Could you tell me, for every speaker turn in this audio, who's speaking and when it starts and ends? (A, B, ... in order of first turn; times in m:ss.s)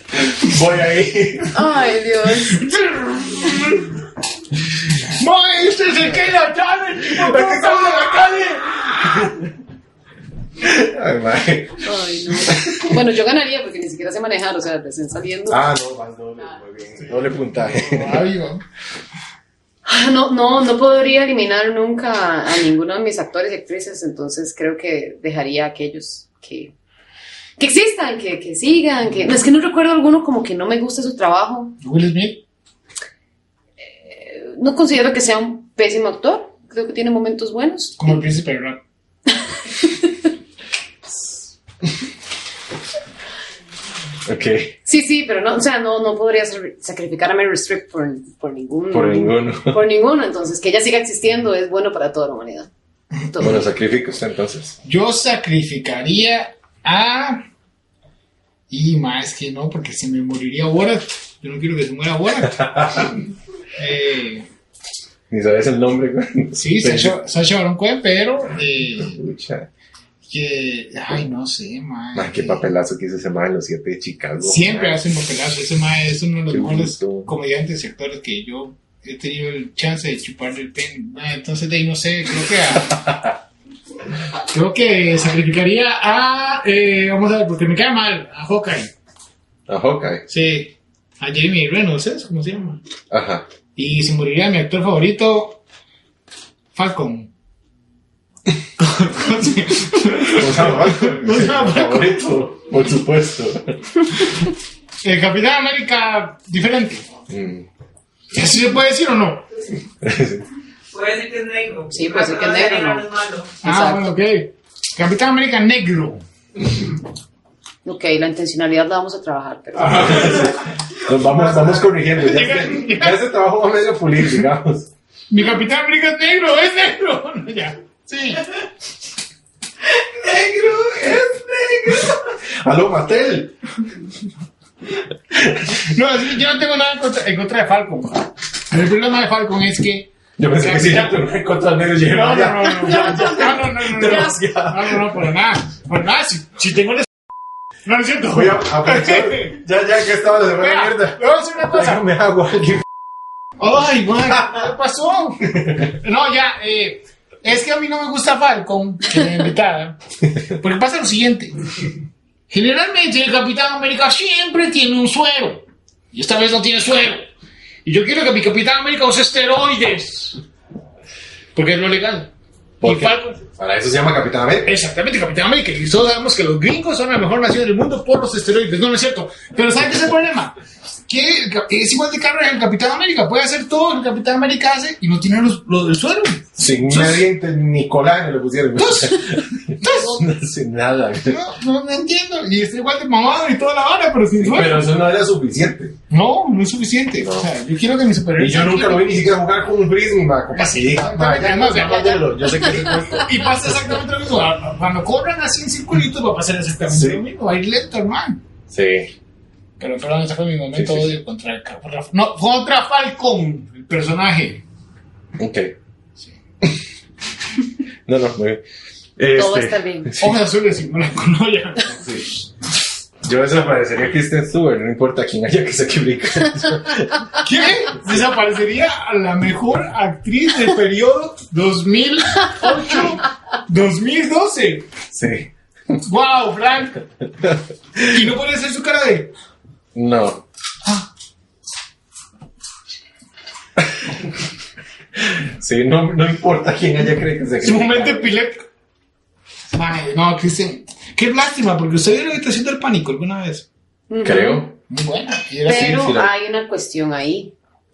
0:00.2-0:01.6 A
0:01.5-0:02.7 B
0:02.7-0:03.8 C
0:05.0-0:09.2 C
0:07.0-0:09.5 A
0:10.6-0:13.0 A
0:11.8-0:15.6 B
0:15.5-0:18.3 A
0:17.3-0:18.6 C
0:19.8-0:26.7 B
0:27.6-0:31.8 B
0:31.8-0:32.4 C
0:34.0-0:38.2 B
0:38.0-0:38.8 C
0:39.8-0:40.1 B
0:44.3-0:44.7 A
0:44.9-0:52.7 B
0:48.9-0:49.8 A
0:53.3-0:53.6 B
0:53.4-0:54.8 A
0:54.8-0:57.4 C
0:58.7-1:03.0 C
1:02.4-1:03.2 A
1:03.8-1:04.5 C
1:05.3-1:07.2 A
1:06.5-1:09.2 C
1:09.0-1:09.7 A
1:10.3-1:12.7 C
1:12.2-1:15.0 A
1:14.4-1:23.0 C
1:16.5-1:17.3 A
1:22.9-1:23.4 A
1:24.5-1:28.9 C
1:29.7-1:30.2 A
1:30.3-1:32.8 C
1:33.1-1:33.5 A
1:33.8-1:35.6 C
1:36.7-1:37.3 C
1:38.8-1:42.2 C
1:40.3-1:44.0 A
1:45.0-1:47.1 C
1:47.3-1:47.7 A
1:48.3-1:49.5 C
1:50.0-1:50.5 A
1:50.9-1:53.5 D
1:51.9-1:53.1 B
1:53.6-1:54.1 B
1:53.6-1:56.2 C
1:57.8-2:00.6 B
1:59.9-2:04.9 A
2:02.1-2:03.2 C
2:05.3-2:08.4 C
2:10.1-2:13.5 A
2:15.3-2:15.8 A
2:15.8-2:21.2 C
2:20.4-2:25.2 A
2:22.0-2:27.1 C
2:22.9-2:23.5 B
2:27.9-2:29.6 C
2:28.3-2:32.8 A
2:30.6-2:32.0 C
2:33.6-2:40.0 C
2:40.5-2:41.6 C
2:42.5-2:47.3 C
2:47.8-2:50.4 C
2:51.6-2:52.3 C
2:52.8-2:54.7 A
2:52.8-2:53.4 C
2:54.6-3:07.2 C
3:06.6-3:11.4 A
3:08.8-3:10.2 C
3:11.2-3:14.9 C
3:14.4-3:16.0 A
3:16.1-3:19.2 C
3:17.2-3:17.5 A
3:18.4-3:23.4 A
3:20.5-3:22.3 C
3:21.9-3:23.0 B
3:22.9-3:28.4 C
3:26.9-3:27.2 A
3:28.7-3:29.1 A
3:29.8-3:34.6 C
3:30.7-3:31.1 A
3:35.4-3:35.8 A
3:38.1-3:38.6 A
3:39.2-3:40.3 A
3:39.3-3:40.2 B
3:40.2-3:42.0 C
3:42.0-3:42.3 A
3:43.2-3:47.3 A
3:47.4-3:54.9 C
3:55.1-3:55.5 A
3:56.0-3:57.0 C
3:57.4-3:58.2 A
3:58.1-3:59.3 C
3:59.9-4:00.4 A
4:05.2-4:08.3 A
4:07.6-4:08.7 C
4:09.7-4:13.7 C
4:14.1-4:14.7 B
4:14.2-4:14.7 A
4:14.9-4:16.0 C
4:15.7-4:17.5 B
4:15.7-4:16.3 A